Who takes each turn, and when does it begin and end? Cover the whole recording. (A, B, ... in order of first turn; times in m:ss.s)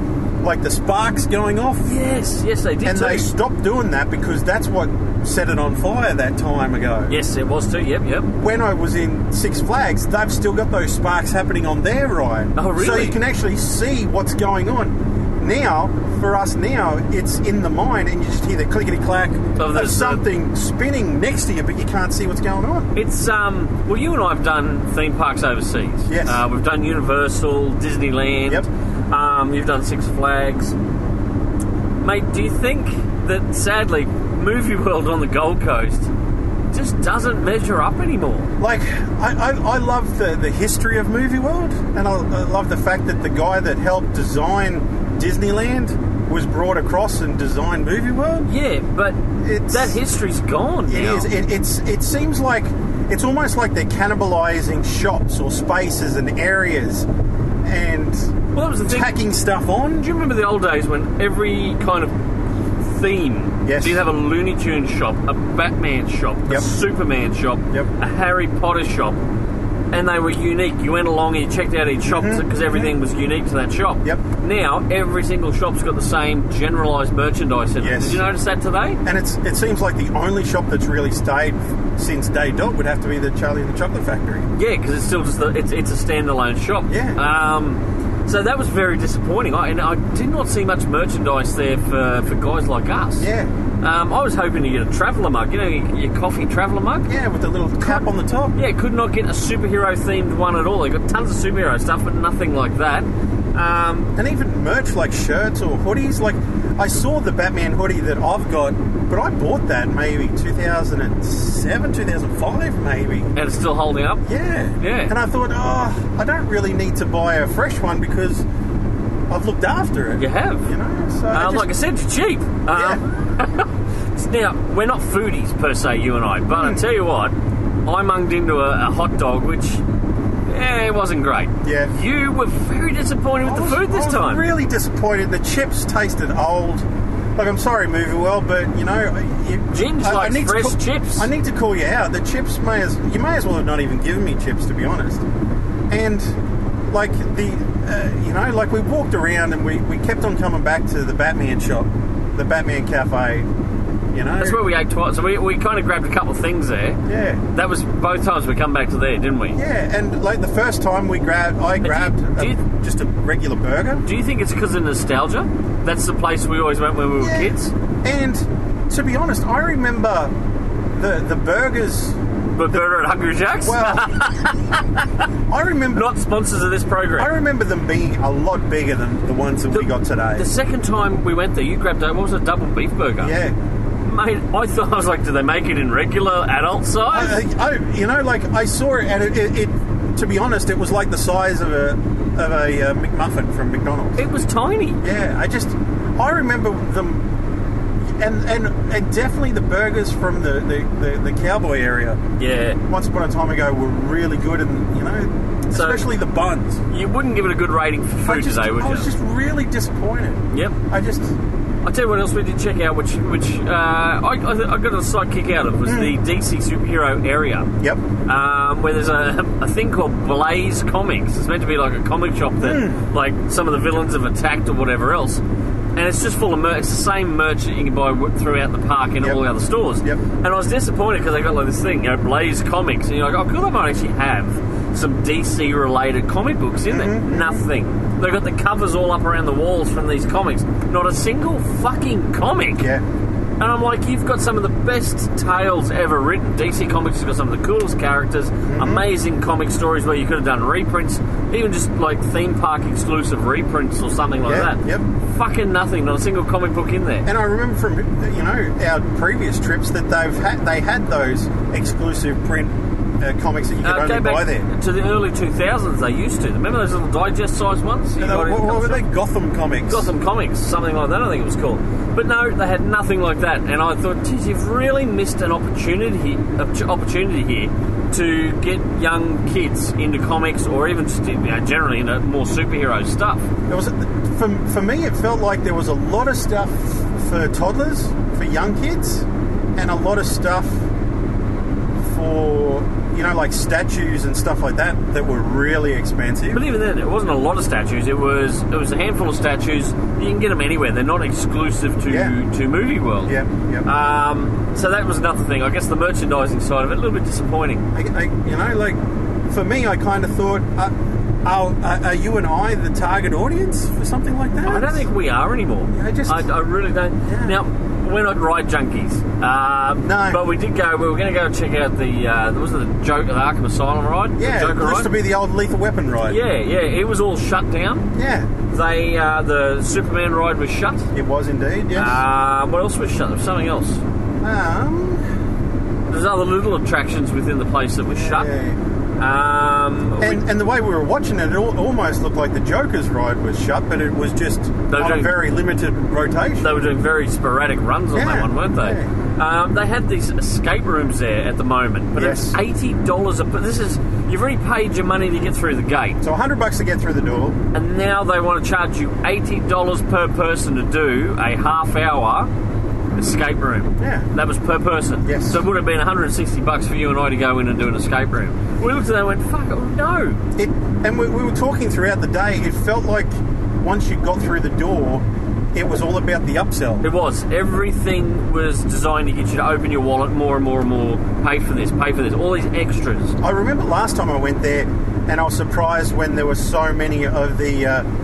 0:00.4-0:01.9 A
0:01.8-0:03.3 B
0:02.8-0:07.1 A
0:07.1-0:08.3 B
0:08.4-0:22.9 A
0:12.6-0:13.2 B
0:19.6-0:20.2 B
0:22.9-0:30.7 B
0:26.1-0:26.4 A
0:32.0-0:36.1 B
0:36.7-0:38.5 B
0:38.6-0:48.5 A
0:48.4-0:51.3 B
0:49.4-0:50.0 A
0:50.9-0:57.1 A
0:57.6-1:00.1 A
0:58.5-0:59.1 B
1:00.0-1:02.1 B
1:02.8-1:09.2 B
1:03.6-1:04.0 A
1:09.9-1:19.0 B
1:12.0-1:12.9 A
1:17.8-1:18.2 A
1:19.0-1:24.5 A
1:24.5-1:33.3 B
1:26.9-1:27.2 A
1:33.2-1:33.5 A
1:33.8-1:37.1 B
1:37.1-1:38.5 A
1:37.8-1:44.1 B
1:44.2-1:53.3 A
1:53.3-1:54.2 B
1:54.2-1:58.4 A
1:54.8-1:55.1 B
1:59.3-2:01.7 A
2:00.2-2:00.7 B
2:01.3-2:07.3 B
2:02.7-2:03.0 A
2:06.5-2:06.8 A
2:07.8-2:09.8 B
2:10.5-2:14.4 B
2:11.6-2:11.9 A
2:13.4-2:16.8 A
2:17.4-2:25.2 A
2:19.7-2:21.3 B
2:25.9-2:26.4 A
2:26.9-2:33.5 A
2:34.1-2:34.6 A
2:34.4-2:37.0 B
2:37.1-2:37.4 A
2:37.5-2:39.6 B
2:39.6-2:44.0 A
2:41.8-2:42.6 B
2:44.0-2:47.7 B
2:47.2-2:50.3 A
2:50.9-2:52.2 A
2:52.6-2:55.3 B
2:53.6-2:54.1 A
2:55.5-2:56.1 A
2:55.9-2:57.3 B
2:57.2-3:00.5 A
2:59.7-3:03.3 B
3:03.2-3:03.5 A
3:04.0-3:07.4 B
3:07.1-3:14.2 A
3:14.2-3:15.0 B
3:15.0-3:17.3 A
3:18.1-3:22.2 A
3:22.4-3:22.8 B
3:22.9-3:26.8 A
3:25.7-3:26.0 B
3:26.9-3:29.1 B
3:28.2-3:31.3 A
3:31.8-3:37.7 B
3:35.8-3:36.1 A
3:38.2-3:45.4 B
3:42.6-3:43.0 A
3:46.0-4:02.9 B
3:56.9-3:57.6 A
4:03.6-4:17.2 B
4:08.7-4:09.0 A
4:14.4-4:15.0 A
4:17.2-4:24.6 A
4:23.8-4:29.0 B
4:28.2-4:30.1 A
4:29.9-4:43.5 B
4:43.7-4:50.8 A
4:52.0-4:56.6 A
4:56.5-5:03.3 B
5:02.1-5:02.3 A
5:03.2-5:03.9 A
5:03.8-5:07.8 B
5:07.9-5:15.0 A
5:14.6-5:25.1 B
5:15.9-5:16.4 A
5:17.3-5:17.6 A
5:20.0-5:20.4 A
5:24.4-5:26.4 A
5:26.2-5:28.1 B
5:28.1-5:28.5 A
5:28.7-5:31.1 B
5:31.1-5:32.2 A
5:31.9-5:34.0 B
5:34.4-5:35.2 A
5:36.1-5:38.5 B
5:38.1-5:38.8 A
5:39.2-5:40.4 B
5:40.2-5:46.7 A
5:44.9-5:45.3 B
5:46.6-5:56.2 B
5:48.1-5:49.1 A
5:52.2-5:52.6 A
5:56.2-5:57.6 A
5:57.7-6:02.5 B
6:03.2-6:10.4 B
6:04.0-6:04.3 A
6:05.2-6:05.6 A
6:10.6-6:13.3 A
6:13.8-6:17.0 A
6:17.0-6:23.4 B
6:23.4-6:28.0 A